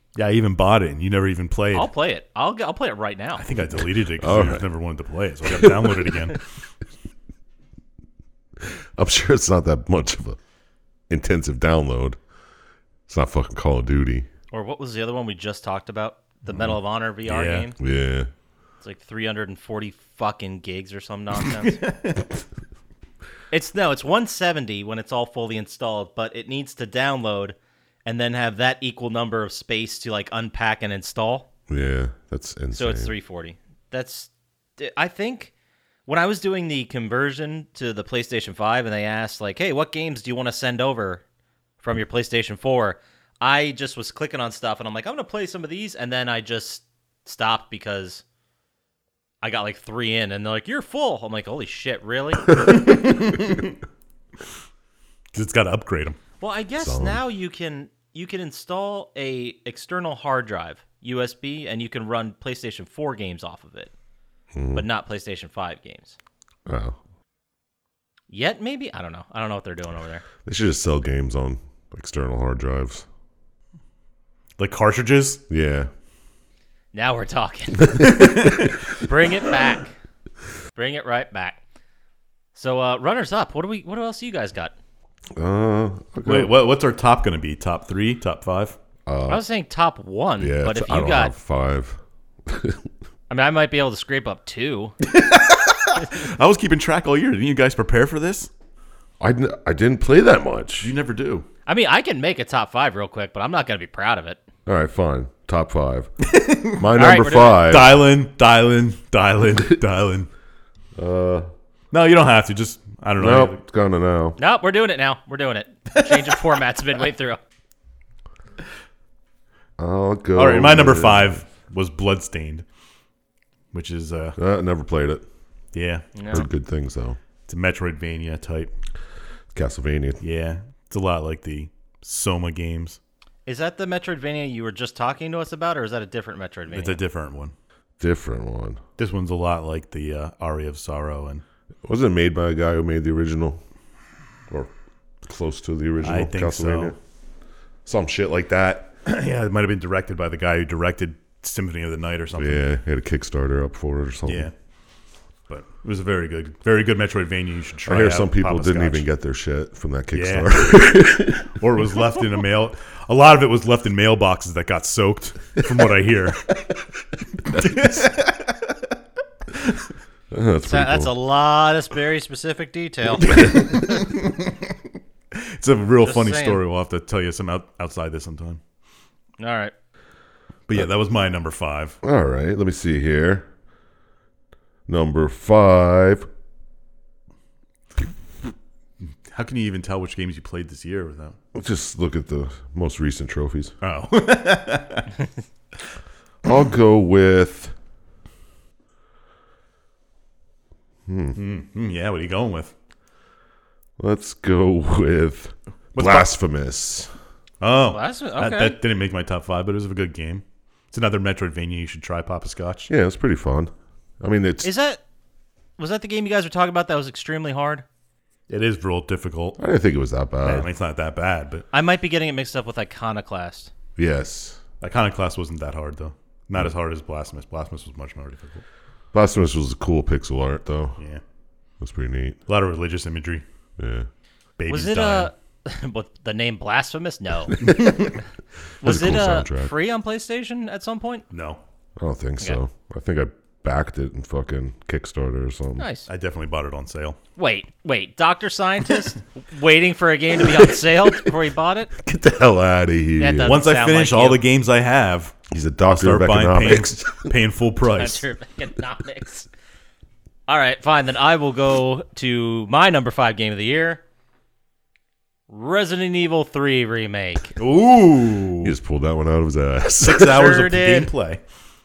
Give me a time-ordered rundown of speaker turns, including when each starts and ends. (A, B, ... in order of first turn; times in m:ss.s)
0:00.2-0:01.9 A
0:01.7-0:03.4 B
0:03.4-0:06.4 A
0:04.2-0:04.7 C
0:05.5-0:06.1 C
0:08.6-0:10.4 C
0:11.1-0:12.2 C
0:13.1-0:14.3 C
0:14.5-0:17.8 B
0:17.3-0:17.7 A
0:17.8-0:18.3 C
0:18.8-0:21.8 B
0:21.5-0:22.2 A
0:23.5-0:31.5 B
0:31.7-0:33.1 C
0:32.7-0:35.5 B
0:36.1-0:41.2 B
0:41.8-0:48.2 B
0:49.4-0:52.8 B
0:52.8-0:53.7 A
0:55.3-0:56.2 A
0:56.4-1:03.9 B
0:56.8-0:57.2 C
1:04.5-1:04.8 C
1:04.7-1:06.2 B
1:06.7-1:07.0 C
1:08.3-1:10.2 B
1:10.4-1:13.1 C
1:14.6-1:15.4 A
1:15.5-1:15.9 C
1:16.9-1:20.0 B
1:17.9-1:18.4 C
1:18.2-1:18.7 A
1:20.8-1:21.6 B
1:22.6-1:24.7 B
1:25.4-1:26.5 C
1:26.2-1:28.8 A
1:29.1-1:29.4 C
1:29.3-1:31.3 B
1:30.4-1:32.8 C
1:33.3-1:35.0 B
1:35.1-1:38.5 A
1:39.2-1:40.9 C
1:40.8-1:41.5 A
1:41.7-1:44.4 B
1:44.7-1:46.1 C
1:46.2-1:47.0 A
1:46.8-1:48.0 C
1:46.9-1:47.7 B
1:47.6-1:50.3 A
1:51.0-1:51.5 C
1:51.9-1:53.6 A
1:53.2-1:54.4 C
1:54.4-1:57.4 B
1:56.0-1:56.4 A
1:59.8-2:01.4 C
2:00.4-2:02.6 A
2:03.7-2:04.4 A
2:04.4-2:05.2 C
2:05.7-2:06.4 A
2:06.2-2:06.4 B
2:06.3-2:07.2 C
2:07.5-2:08.7 A
2:09.5-2:10.2 C
2:10.2-2:13.0 A
2:13.5-2:17.0 B
2:16.7-2:17.5 A
2:18.0-2:18.8 C
2:19.0-2:21.4 A
2:21.8-2:23.6 C
2:25.2-2:27.0 C
2:26.0-2:26.9 A
2:27.9-2:28.9 C
2:29.0-2:32.7 A
2:32.4-2:34.5 C
2:34.2-2:34.5 A
2:35.5-2:39.1 A
2:37.9-2:41.6 C
2:40.1-2:46.4 A
2:47.5-2:48.8 A
2:47.5-2:48.0 C
2:49.5-2:49.8 A
2:50.3-2:51.1 C
2:50.6-2:53.6 B
2:53.2-2:54.6 A
2:55.3-2:58.6 A
2:56.0-2:56.6 B
2:59.4-2:59.7 B
3:00.7-3:02.0 A
3:02.0-3:03.5 C
3:04.9-3:06.3 C
3:09.3-3:11.4 A
3:11.5-3:13.8 C
3:13.8-3:15.2 A
3:16.4-3:17.7 C
3:21.1-3:21.4 C
3:21.4-3:22.7 A
3:24.0-3:27.1 C
3:26.0-3:26.3 A
3:27.6-3:32.9 A
3:27.9-3:28.8 B
3:32.9-3:34.7 C
3:34.6-3:35.0 B
3:35.8-3:37.8 B
3:38.5-3:39.6 A
3:39.6-3:40.7 C
3:40.4-3:41.7 A
3:41.7-3:43.7 B
3:44.0-3:44.6 C
3:44.8-3:48.6 A
3:49.1-3:51.0 C
3:51.8-3:52.4 C
3:52.5-3:53.4 A
3:53.8-3:54.1 C
3:54.6-3:55.3 A
3:54.7-3:58.2 B
3:57.7-3:58.0 C
3:58.8-3:59.7 C
3:58.8-4:01.3 B
4:01.3-4:01.6 A
4:02.0-4:05.9 C
4:05.8-4:06.1 B
4:06.1-4:07.2 A
4:07.4-4:11.9 B
4:12.0-4:13.6 C
4:13.2-4:14.4 B
4:13.4-4:15.4 A
4:15.5-4:17.3 C
4:15.9-4:18.2 A
4:18.0-4:19.5 B
4:20.5-4:24.0 B
4:25.5-4:27.6 B
4:27.6-4:28.7 A
4:28.6-4:30.5 C
4:30.0-4:31.4 A
4:30.3-4:31.1 B